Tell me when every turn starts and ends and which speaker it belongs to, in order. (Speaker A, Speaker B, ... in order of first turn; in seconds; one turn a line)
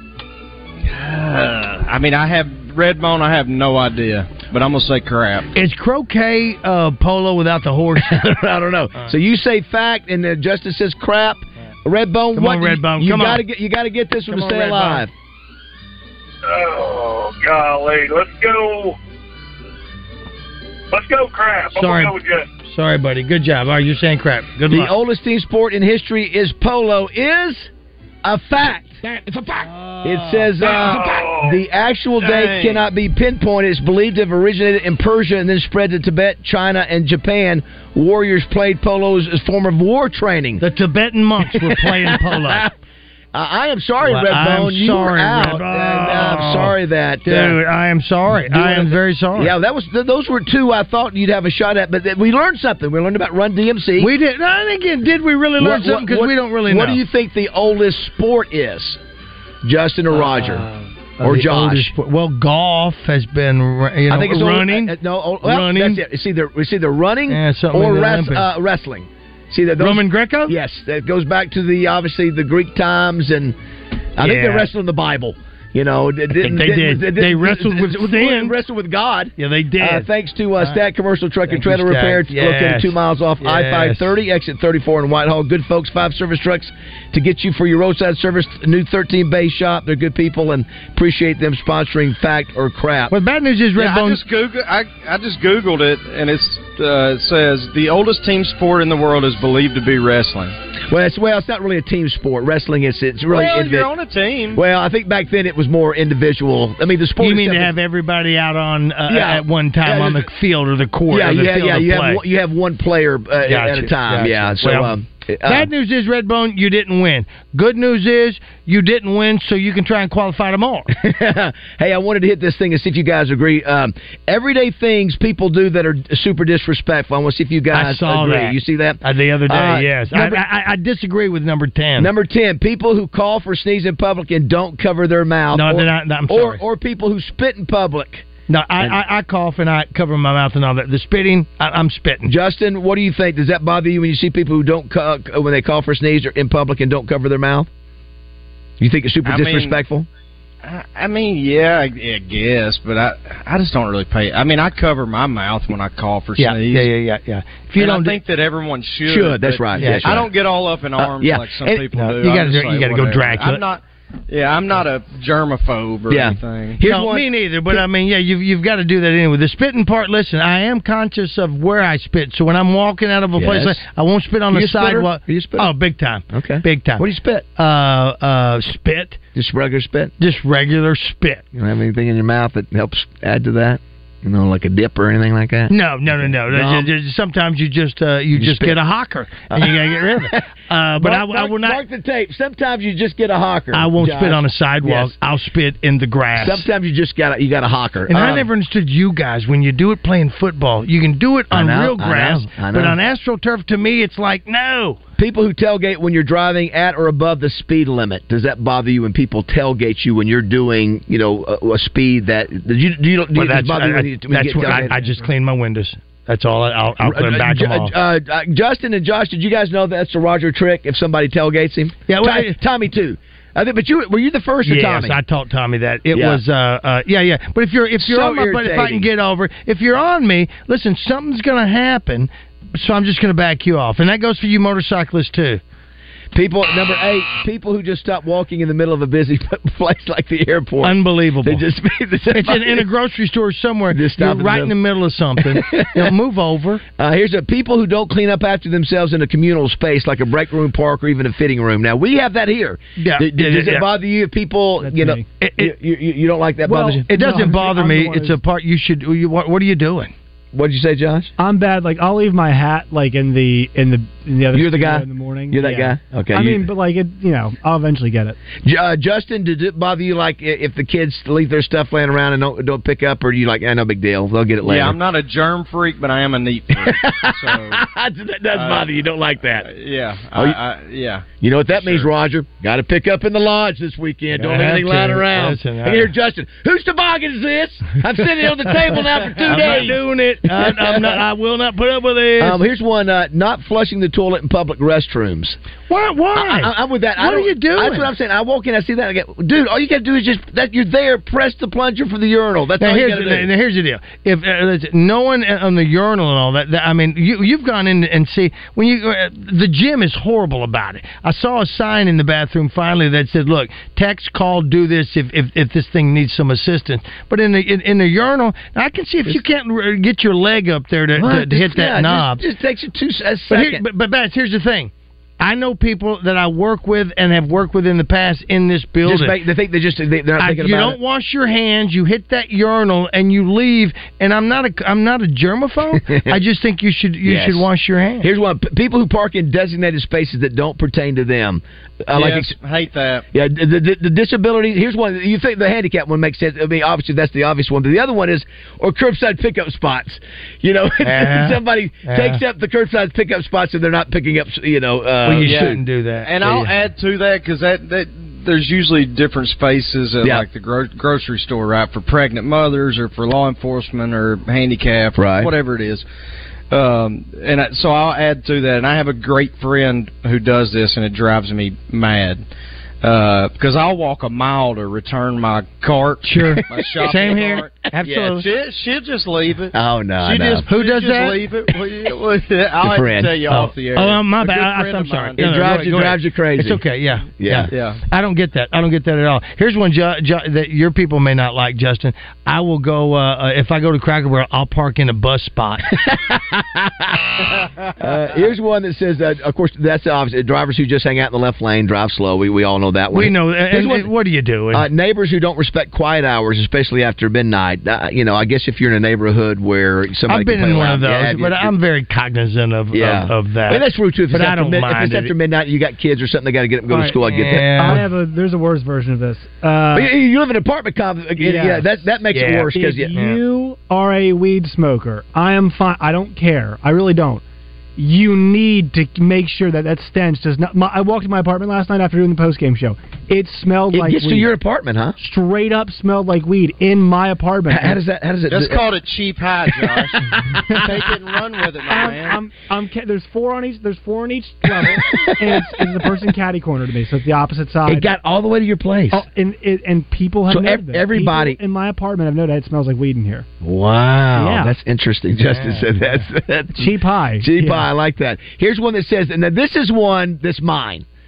Speaker A: 0.8-5.5
Speaker B: 5.5-8.4
Speaker C: 8.0-15.1
Speaker B: 12.3-13.4
Speaker B: 14.3-15.1
Speaker D: 16.4-19.0
Speaker D: 20.9-22.5
Speaker B: 21.8-22.1
Speaker B: 22.6-24.9
Speaker C: 24.7-27.7
Speaker C: 28.2-29.0
Speaker B: 29.6-30.5
Speaker C: 30.0-40.6
Speaker A: 30.6-31.1
Speaker D: 30.9-31.6
Speaker A: 32.2-32.9
Speaker B: 40.6-42.7
Speaker C: 41.4-42.7
Speaker C: 43.3-47.6
Speaker B: 44.0-49.5
Speaker C: 48.5-54.1
Speaker B: 54.0-57.0
Speaker C: 55.6-59.0
Speaker C: 59.6-60.7
Speaker B: 60.1-66.0
Speaker C: 61.2-61.9
Speaker C: 64.1-73.6
Speaker B: 67.3-68.5
Speaker B: 69.8-70.6
Speaker C: 74.2-93.1
Speaker B: 74.2-74.7
Speaker B: 76.4-78.6
Speaker B: 79.4-80.1
Speaker B: 81.5-84.1
Speaker B: 93.1-94.2
Speaker A: 93.8-100.6
Speaker C: 100.9-103.9
Speaker A: 103.3-104.6
Speaker C: 104.5-107.7
Speaker B: 107.2-112.2
Speaker C: 109.1-110.3
Speaker C: 111.1-115.7
Speaker B: 113.5-120.9
Speaker C: 120.9-130.4
Speaker B: 127.7-132.1
Speaker C: 132.0-138.3
Speaker B: 135.5-136.6
Speaker B: 138.5-142.3
Speaker C: 142.3-147.7
Speaker C: 148.8-150.1
Speaker A: 149.2-149.8
Speaker A: 150.6-156.9
Speaker B: 156.4-158.2
Speaker A: 157.8-166.8
Speaker C: 159.1-160.3
Speaker B: 159.8-160.2
Speaker C: 161.0-161.8
Speaker B: 161.9-163.6
Speaker C: 166.1-167.8
Speaker B: 166.8-177.0
Speaker C: 173.4-173.8
Speaker C: 174.5-175.7
Speaker C: 176.3-177.4
Speaker B: 177.6-179.2
Speaker C: 179.3-180.1
Speaker B: 180.2-181.4
Speaker C: 181.5-186.9
Speaker B: 185.7-191.8
Speaker C: 188.3-188.8
Speaker C: 189.5-190.5
Speaker C: 191.0-195.2
Speaker B: 193.7-196.7
Speaker C: 196.4-198.5
Speaker B: 198.1-205.0
Speaker C: 201.5-203.0
Speaker C: 205.2-215.0
Speaker B: 213.3-217.9
Speaker C: 217.0-225.2
Speaker B: 222.1-222.6
Speaker B: 224.7-235.6
Speaker C: 226.1-226.4
Speaker C: 228.0-229.1
Speaker C: 236.3-242.9
Speaker B: 240.8-241.6
Speaker B: 242.3-246.8
Speaker C: 243.9-244.7
Speaker C: 245.4-246.1
Speaker C: 247.0-257.1
Speaker B: 253.0-253.9
Speaker E: 254.8-255.2
Speaker B: 255.4-255.7
Speaker E: 256.6-258.4
Speaker B: 257.1-260.1
Speaker C: 260.5-261.3
Speaker E: 261.4-268.4
Speaker C: 264.5-266.7
Speaker C: 268.6-275.0
Speaker A: 274.6-277.8
Speaker C: 276.8-279.7
Speaker A: 278.5-279.0
Speaker A: 279.6-282.1
Speaker C: 281.4-291.2
Speaker B: 284.3-286.1
Speaker B: 288.6-292.6
Speaker A: 289.6-289.9
Speaker C: 292.4-295.6
Speaker B: 295.9-298.1
Speaker C: 296.3-303.5
Speaker B: 302.8-322.4
Speaker C: 321.1-323.8
Speaker B: 323.5-329.4
Speaker C: 329.0-331.0
Speaker B: 330.4-338.3
Speaker C: 335.9-336.4
Speaker C: 337.2-337.7
Speaker C: 338.2-342.5
Speaker A: 342.1-343.2
Speaker C: 343.3-355.8
Speaker B: 351.0-352.4
Speaker B: 355.2-356.7
Speaker A: 355.4-366.1
Speaker C: 365.2-365.5
Speaker A: 366.7-372.4
Speaker A: 373.0-385.6
Speaker B: 376.2-378.4
Speaker C: 377.0-377.3
Speaker C: 378.0-378.3
Speaker C: 379.7-380.6
Speaker B: 380.7-381.4
Speaker C: 382.8-383.4
Speaker B: 383.5-395.9
Speaker C: 385.4-386.8
Speaker C: 387.4-387.7
Speaker A: 387.7-388.0
Speaker C: 395.9-397.4
Speaker C: 398.0-404.1
Speaker B: 403.1-404.9
Speaker C: 404.7-411.7
Speaker B: 410.3-415.3
Speaker C: 412.9-418.0
Speaker B: 417.0-418.0
Speaker E: 417.7-420.1
Speaker C: 419.9-423.2
Speaker E: 421.4-421.9
Speaker B: 422.3-423.4
Speaker E: 422.7-427.4
Speaker E: 428.0-434.5
Speaker C: 433.9-435.2
Speaker E: 435.2-438.0
Speaker C: 437.7-438.9
Speaker A: 438.5-442.4
Speaker C: 439.8-441.1
Speaker E: 441.9-448.1
Speaker C: 444.8-445.8
Speaker C: 447.9-449.2
Speaker E: 449.1-453.5
Speaker C: 450.5-451.6
Speaker C: 453.6-461.1
Speaker E: 454.4-454.7
Speaker B: 455.4-455.9
Speaker E: 456.8-457.9